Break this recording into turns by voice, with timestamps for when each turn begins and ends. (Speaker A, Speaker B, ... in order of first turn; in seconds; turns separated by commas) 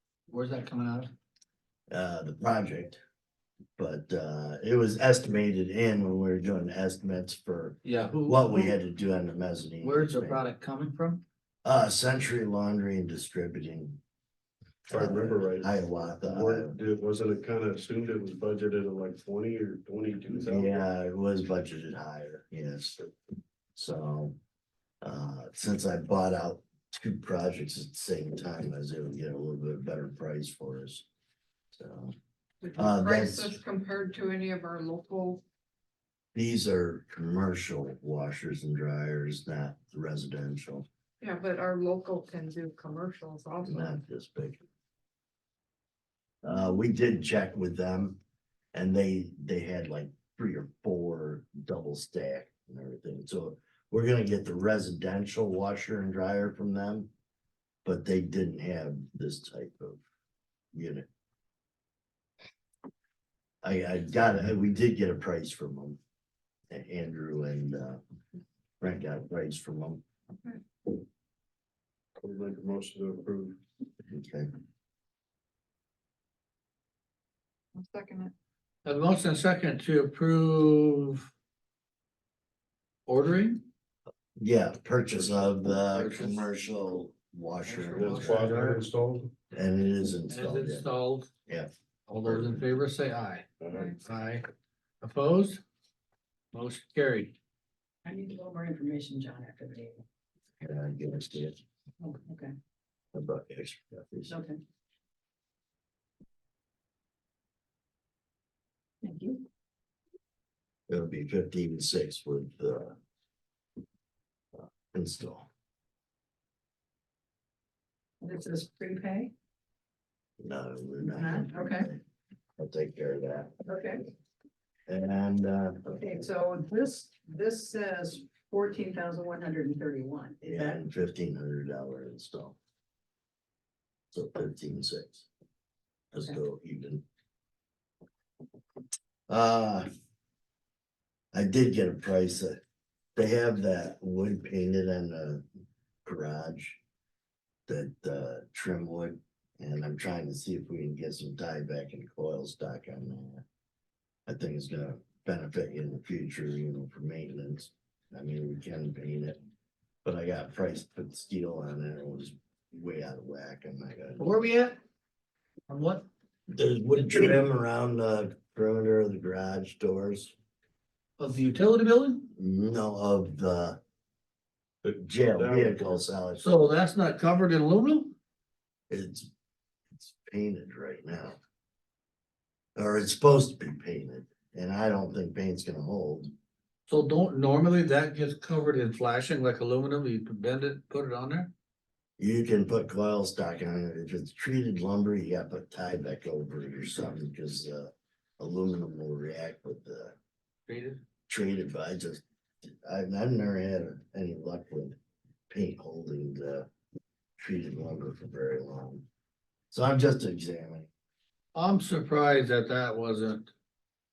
Speaker A: 0.3-1.1, Speaker B: 1.9-3.0, Speaker B: 3.8-10.4, Speaker A: 7.8-8.8, Speaker A: 9.8-11.2, Speaker B: 11.6-14.0, Speaker B: 14.9-16.7, Speaker C: 14.9-20.9, Speaker B: 20.3-23.1, Speaker B: 23.7-24.4, Speaker B: 25.0-31.1, Speaker B: 31.7-32.1, Speaker D: 32.6-35.4, Speaker B: 32.8-33.6, Speaker B: 36.3-40.9, Speaker D: 41.2-44.0, Speaker B: 43.6-44.6, Speaker B: 46.4-48.2, Speaker B: 48.7-57.1, Speaker B: 57.8-60.0, Speaker B: 60.7-61.1, Speaker B: 63.6-66.0, Speaker B: 66.7-68.0, Speaker B: 68.8-70.0, Speaker C: 72.2-73.6, Speaker B: 74.1-74.5, Speaker D: 77.8-78.3, Speaker A: 78.8-81.3, Speaker A: 83.1-83.6, Speaker B: 84.4-88.5, Speaker A: 85.9-86.5, Speaker A: 87.6-88.8, Speaker C: 87.9-89.3, Speaker B: 89.5-90.8, Speaker A: 90.3-91.3, Speaker A: 92.1-94.5, Speaker B: 92.3-92.6, Speaker C: 93.6-93.9, Speaker A: 95.0-95.6, Speaker A: 96.5-97.3, Speaker E: 98.0-100.0, Speaker B: 100.6-101.6, Speaker E: 102.0-102.5, Speaker B: 103.1-104.4, Speaker E: 104.3-104.6, Speaker E: 109.0-109.5, Speaker B: 110.9-113.0, Speaker B: 114.5-115.5, Speaker E: 118.2-119.3, Speaker B: 120.4-122.0, Speaker E: 121.1-121.9, Speaker B: 122.6-123.5, Speaker E: 123.6-124.0, Speaker B: 124.9-125.9, Speaker E: 125.8-130.8, Speaker B: 130.4-132.6, Speaker B: 134.1-135.3, Speaker B: 136.1-137.0, Speaker B: 139.3-139.9, Speaker B: 141.3-142.6, Speaker B: 143.2-145.4, Speaker B: 146.0-146.8, Speaker B: 147.7-153.4, Speaker B: 154.3-159.4, Speaker B: 160.0-164.4, Speaker A: 164.2-164.8, Speaker A: 165.7-166.1, Speaker B: 166.5-170.3, Speaker A: 171.2-172.3, Speaker B: 172.3-173.8, Speaker C: 174.8-176.0, Speaker B: 175.0-176.5, Speaker A: 176.4-178.1, Speaker B: 178.9-179.3, Speaker B: 179.9-181.4, Speaker B: 182.8-186.3, Speaker A: 186.9-191.5, Speaker B: 192.2-200.2, Speaker A: 200.7-201.0, Speaker B: 201.3-205.0, Speaker B: 205.5-206.7, Speaker B: 207.4-209.1, Speaker B: 209.7-210.9, Speaker A: 211.5-213.5